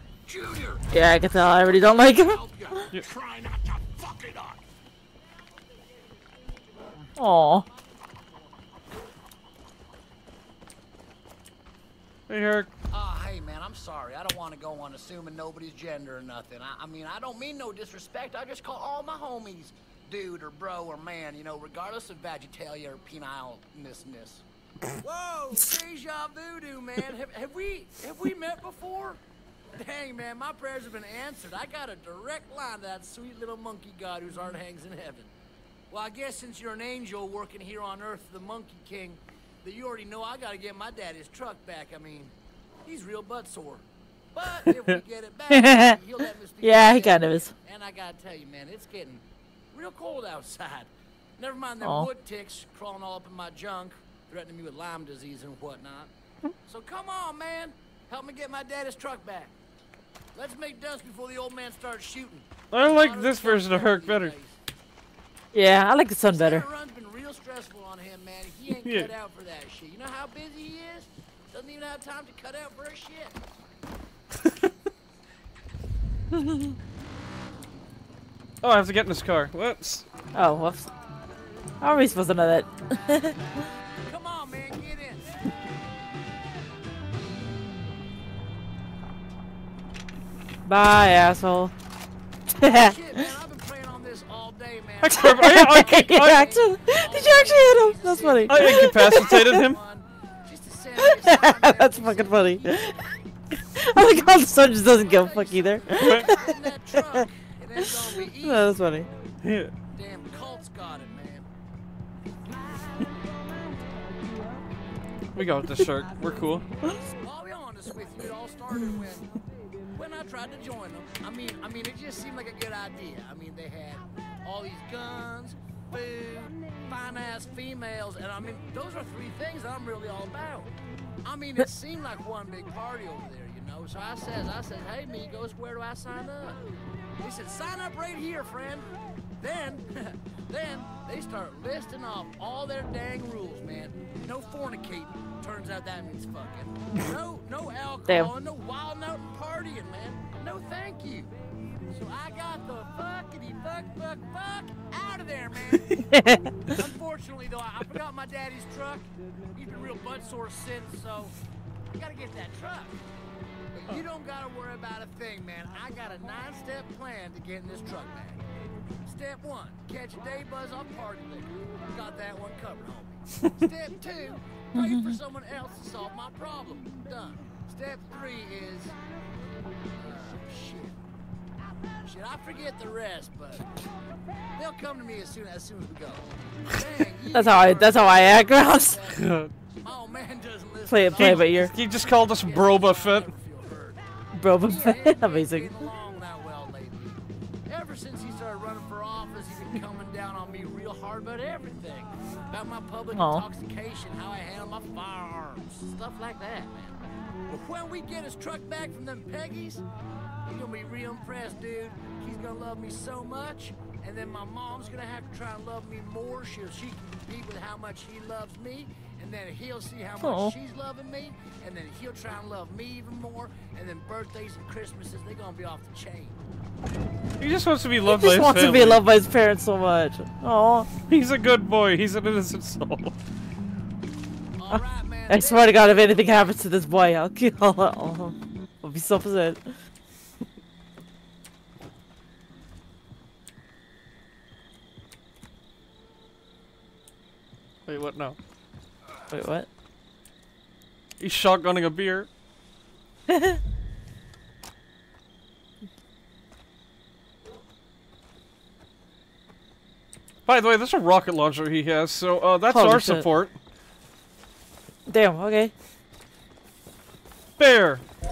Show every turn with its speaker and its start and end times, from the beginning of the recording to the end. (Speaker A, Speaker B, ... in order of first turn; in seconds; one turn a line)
Speaker A: 0.2-4.6
Speaker B: 0.9-2.9
Speaker B: 7.2-7.7
Speaker C: 7.3-8.5
Speaker D: 12.3-12.7
Speaker C: 12.9-29.2
Speaker C: 29.8-35.3
Speaker C: 35.9-42.3
Speaker C: 42.9-56.1
Speaker B: 45.5-46.0
Speaker B: 46.6-47.5
Speaker B: 51.8-52.1
Speaker C: 56.7-59.5
Speaker C: 60.4-64.6
Speaker D: 62.7-64.3
Speaker B: 65.5-66.7
Speaker C: 66.3-73.4
Speaker D: 68.8-69.1
Speaker D: 74.4-74.7
Speaker B: 76.3-76.7
Speaker D: 78.6-80.1
Speaker B: 80.3-80.9
Speaker B: 81.8-83.4
Speaker C: 84.0-85.2
Speaker B: 90.7-91.7
Speaker B: 92.6-93.2
Speaker C: 92.6-102.8
Speaker D: 95.0-96.5
Speaker B: 95.1-99.6
Speaker D: 98.5-99.8
Speaker B: 101.0-103.0
Speaker B: 103.7-107.3
Speaker C: 104.8-108.8
Speaker D: 105.9-106.3
Speaker B: 107.8-109.1
Speaker D: 109.4-109.7
Speaker C: 109.9-111.5
Speaker D: 115.3-116.7
Speaker C: 116.9-119.4
Speaker C: 119.9-130.7
Speaker C: 131.2-136.6
Speaker C: 137.2-138.9
Speaker C: 139.4-151.3
Speaker C: 151.9-156.0
Speaker B: 156.1-156.5
Speaker C: 156.7-161.3
Speaker C: 161.9-163.0
Speaker C: 163.8-168.4
Speaker C: 169.1-179.0
Speaker B: 174.7-175.2
Speaker C: 179.9-181.0
Speaker C: 182.0-183.7
Speaker C: 184.6-194.0
Speaker B: 187.3-189.0
Speaker D: 189.1-189.5
Speaker B: 190.9-191.7
Speaker D: 191.2-193.3
Speaker B: 194.4-195.7
Speaker C: 194.6-209.9
Speaker B: 203.1-203.4
Speaker C: 210.4-226.4
Speaker B: 220.2-220.5
Speaker D: 227.4-229.0
Speaker B: 228.1-230.9
Speaker D: 231.1-233.2
Speaker C: 234.6-236.5
Speaker B: 234.7-239.8
Speaker D: 247.9-248.4
Speaker B: 249.3-249.7
Speaker D: 251.2-252.3
Speaker B: 253.3-253.6
Speaker D: 260.5-263.6
Speaker B: 262.7-263.3
Speaker B: 265.1-265.7
Speaker D: 267.6-268.1